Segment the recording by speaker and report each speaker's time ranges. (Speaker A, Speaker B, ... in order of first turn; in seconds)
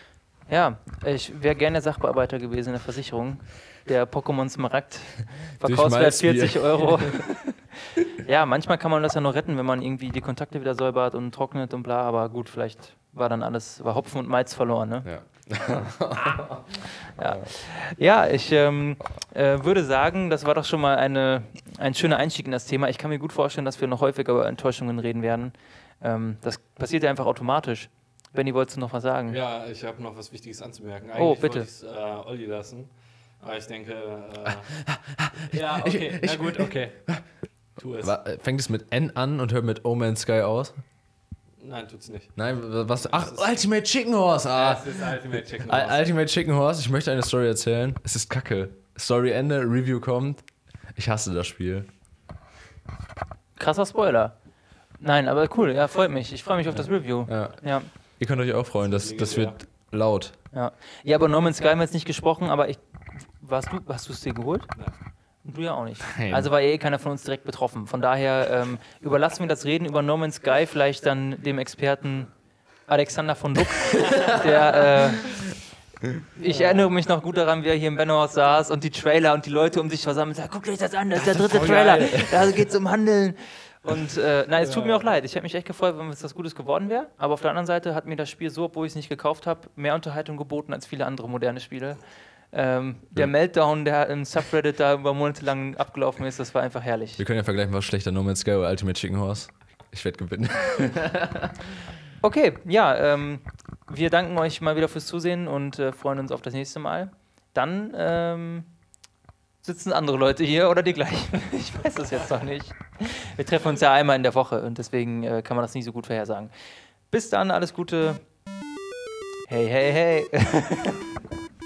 Speaker A: 0.5-15.1, 17.1-29.4, 31.2-31.7, 53.6-54.4, 55.0-57.9, 60.5-64.8, 65.4-72.3, 72.9-75.3, 76.4-92.0, 92.5-97.2, 102.2-108.7, 109.6-116.5, 117.1-118.2, 119.5-121.0
Speaker B: 5.6-7.2, 15.0-17.5, 34.5-37.2, 38.0-40.8, 42.4-51.9, 56.7-60.4, 66.1-66.5, 81.2-82.5, 97.2-101.6
Speaker C: 29.3-32.9, 33.4-34.7, 35.5-37.0, 37.8-38.1, 41.6-42.5, 43.0-43.5, 44.5-46.1, 58.8-59.6, 76.4-76.9, 84.7-85.0